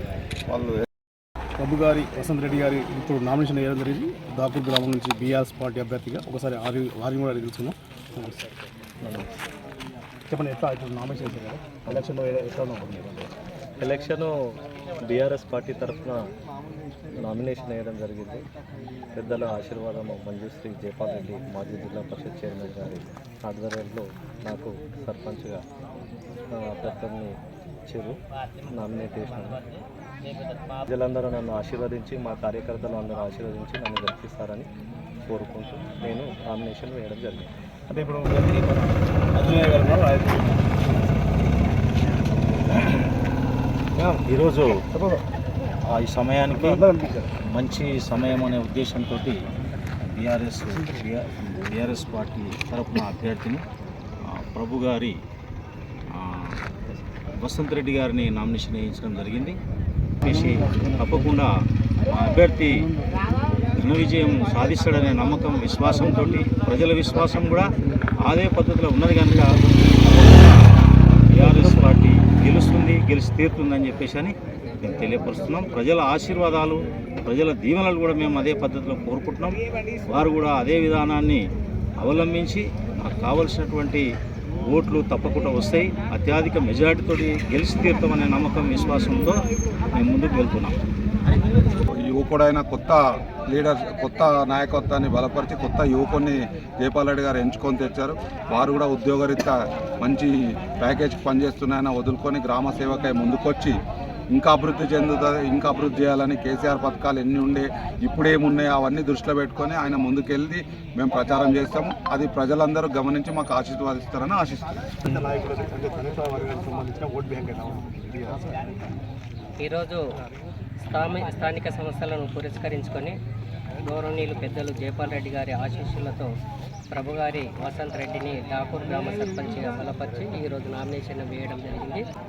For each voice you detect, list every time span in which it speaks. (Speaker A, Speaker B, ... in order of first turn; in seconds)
Speaker A: 0.5-0.8, 92.0-103.8, 104.3-114.9
Speaker B: 1.6-8.4, 10.3-13.3, 37.9-41.2, 46.7-47.3, 115.0-119.0
Speaker C: 9.0-9.3, 13.8-14.3, 15.1-16.2, 17.2-18.4, 19.1-25.6, 26.5-27.4, 27.9-29.6, 30.8-34.7, 35.3-37.5
Speaker D: 44.0-45.0, 45.9-46.9, 47.5-49.4, 50.0-53.6, 54.3-55.2, 56.1-56.5, 57.4-59.6, 60.2-61.5, 62.0-62.9, 63.8-70.6, 71.3-81.4, 82.0-84.1, 84.7-90.8
Speaker E: 119.6-120.0, 120.8-123.2, 123.8-126.3, 126.9-132.0